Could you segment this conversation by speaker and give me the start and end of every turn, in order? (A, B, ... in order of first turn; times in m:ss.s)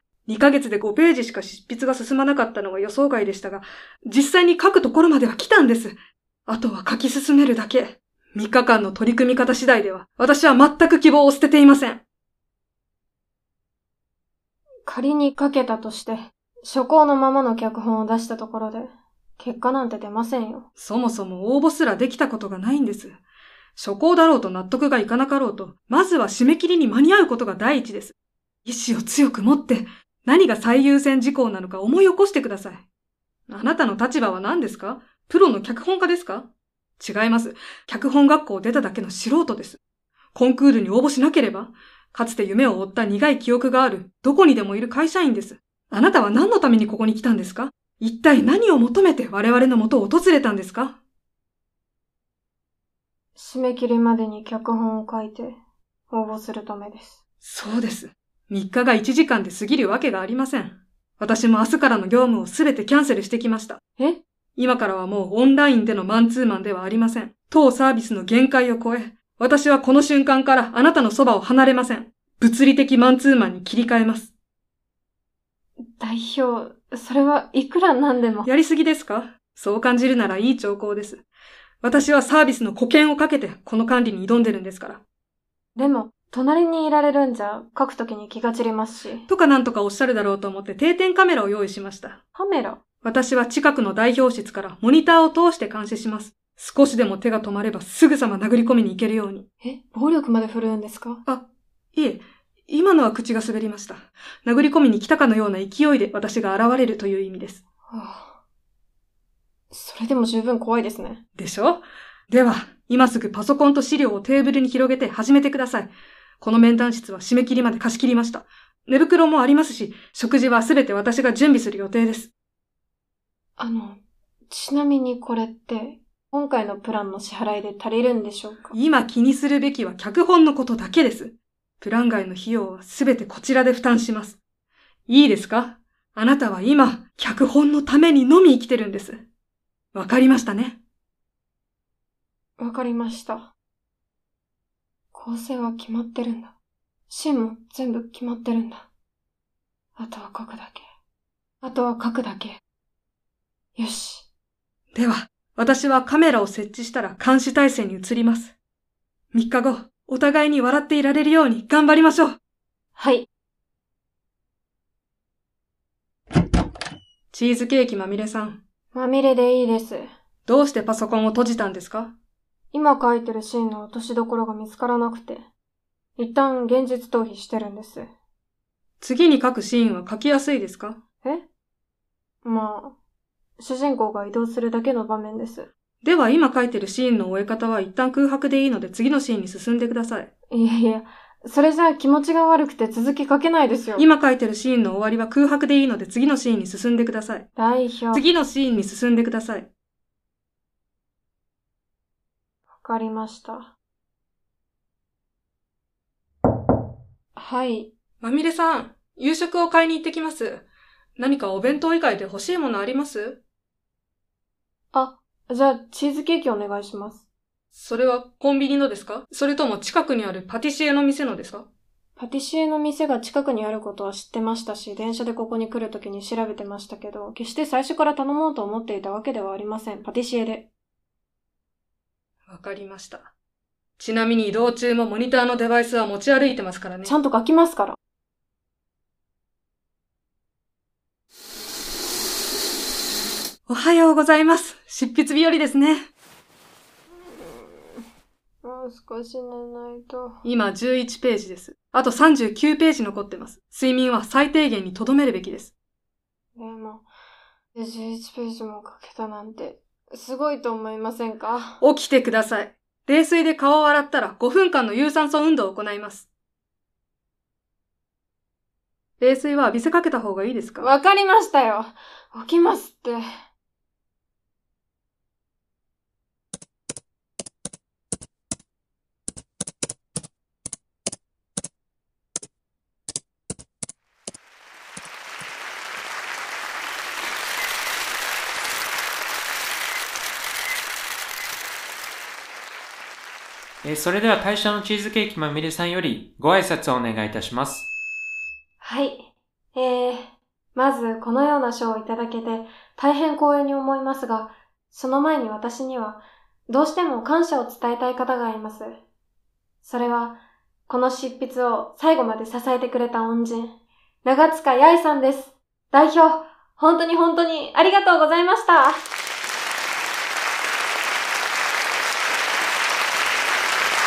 0:00.3-0:12.0 A
0:14.8-0:20.7 B
0:20.8-0:23.2 A
0:23.8-0:32.8 A
0:33.5-0:39.8 A
0:40.3-0:51.0 A
0:53.3-0:55.6 B
0:56.1-0:57.2 B
0:57.4-1:03.8 A
1:04.6-1:14.3 A
1:16.0-1:18.5 B
1:18.4-1:21.2 A
1:21.8-1:25.0 A
1:25.7-1:29.3 B
1:29.3-1:32.2 A
1:32.3-1:32.8 B
1:33.0-1:39.4 A
1:39.6-1:41.2 B
1:41.2-1:47.6 A
1:47.9-1:48.4 B
1:49.7-1:51.2 B
1:51.4-2:02.3 A
2:03.6-2:08.7 B
2:08.7-2:14.4 A
2:15.1-2:19.2 A
2:19.9-2:20.8 A
2:22.6-2:23.5 B
2:25.1-2:26.5 B
2:27.1-2:28.9 B
2:30.0-2:30.8 B
2:31.6-2:32.6 B
2:33.7-2:34.3 B
2:34.9-2:38.6 A
2:39.3-2:42.4 A
2:43.0-2:43.3 B
2:47.3-2:48.6 A
2:48.9-2:50.1 B
2:50.4-2:52.1 A
2:52.7-2:55.4 B
2:56.2-2:58.1 B
2:59.0-3:01.0 A
3:02.4-3:03.0 B
3:03.6-3:05.7 B
3:06.0-3:10.3 A
3:10.5-3:14.1 B
3:14.0-3:17.5 A
3:17.6-3:18.3 B
3:18.1-3:19.7 A
3:22.7-3:23.7 B
3:27.3-3:27.9 B
3:28.2-3:30.6 A
3:31.2-3:33.4 A
3:34.9-3:37.2 B
3:37.7-3:41.7 A
3:42.2-3:50.7 B
3:52.5-3:53.3 A
3:54.0-3:57.2 A
3:57.0-3:58.0 B
4:03.7-4:06.1 A
4:07.2-4:08.0 B
4:08.6-4:10.4 B
4:10.4-4:15.7 A
4:16.5-4:17.1 B
4:17.7-4:21.8 B
4:21.8-4:26.3 A
4:29.2-4:30.9 A
4:30.8-4:33.2 B
4:53.8-4:57.9 C
4:58.8-5:09.0 B
5:09.8-5:19.1 B